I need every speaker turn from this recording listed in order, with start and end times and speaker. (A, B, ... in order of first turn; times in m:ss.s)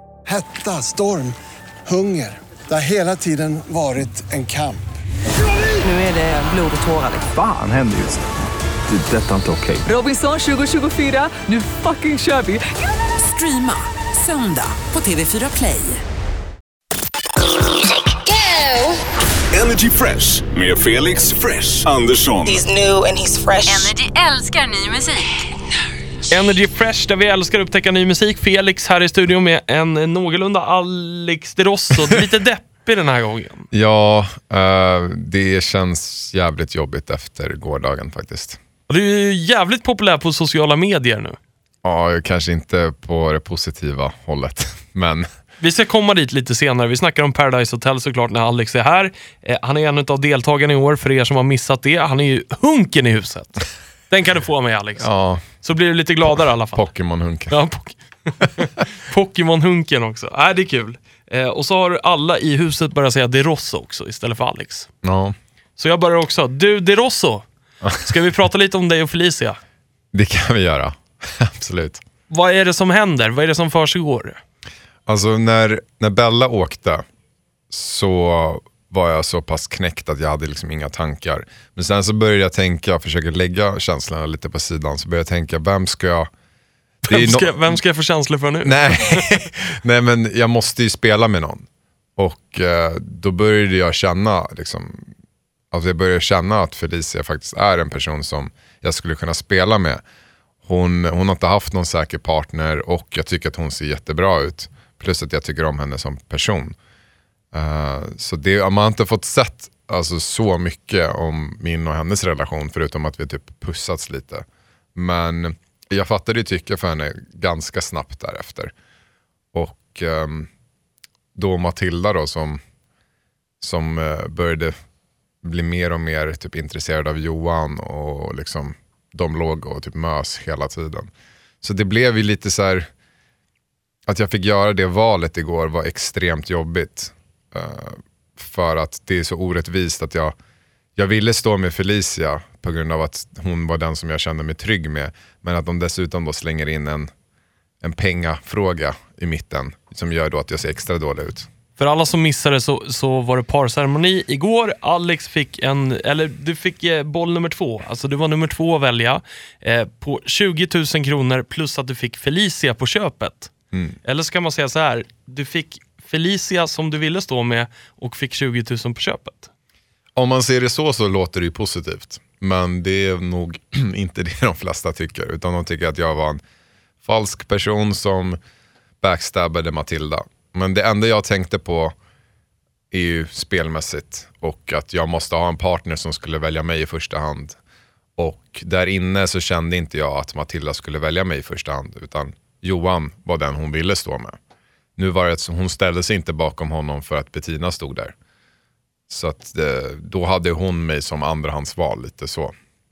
0:00.2-0:01.3 A
0:01.8-0:04.8 A
0:05.8-0:07.3 B
0:07.1-0:08.3 C
0:08.9-0:09.9 C
0:09.8-0:16.0 B
0:18.1-0:19.0 D
0:19.5-0:22.6 E
0:22.4-0:23.9 D
0:23.7-0:25.3 B
0:26.3-0:33.7 F
0:33.7-0:38.6 G
0:38.9-0:41.4 F
0:41.8-0:45.3 G
0:45.6-0:56.9 F
0:55.0-0:55.4 G
0:56.7-0:57.6 G
0:57.5-1:04.9 F
1:05.0-1:05.4 G
1:05.8-1:07.4 F
1:07.8-1:08.1 G
1:08.0-1:09.6 F
1:10.1-1:12.0 G
1:12.3-1:14.4 F
1:15.1-1:17.0 G
1:17.7-1:26.3 G
1:27.0-1:29.3 F
1:27.1-1:27.8 G
1:28.6-1:35.1 G
1:35.7-1:40.0 G
1:40.6-1:46.8 G
1:47.5-1:58.7 G
1:59.5-2:00.5 G
2:01.3-2:02.6 G
2:03.6-2:04.7 G
2:05.4-2:11.1 G
2:11.6-2:12.9 G
2:14.0-2:20.3 G
2:21.0-2:27.1 G
2:27.8-2:31.5 G
2:31.8-2:43.5 F
2:43.7-2:44.0 G
2:44.0-2:49.5 F
2:50.1-2:56.4 G
2:57.0-2:58.4 G
2:59.0-3:01.9 G
3:02.9-3:07.6 G
3:08.2-3:14.4 G
3:15.0-3:18.1 G
3:19.1-3:22.5 G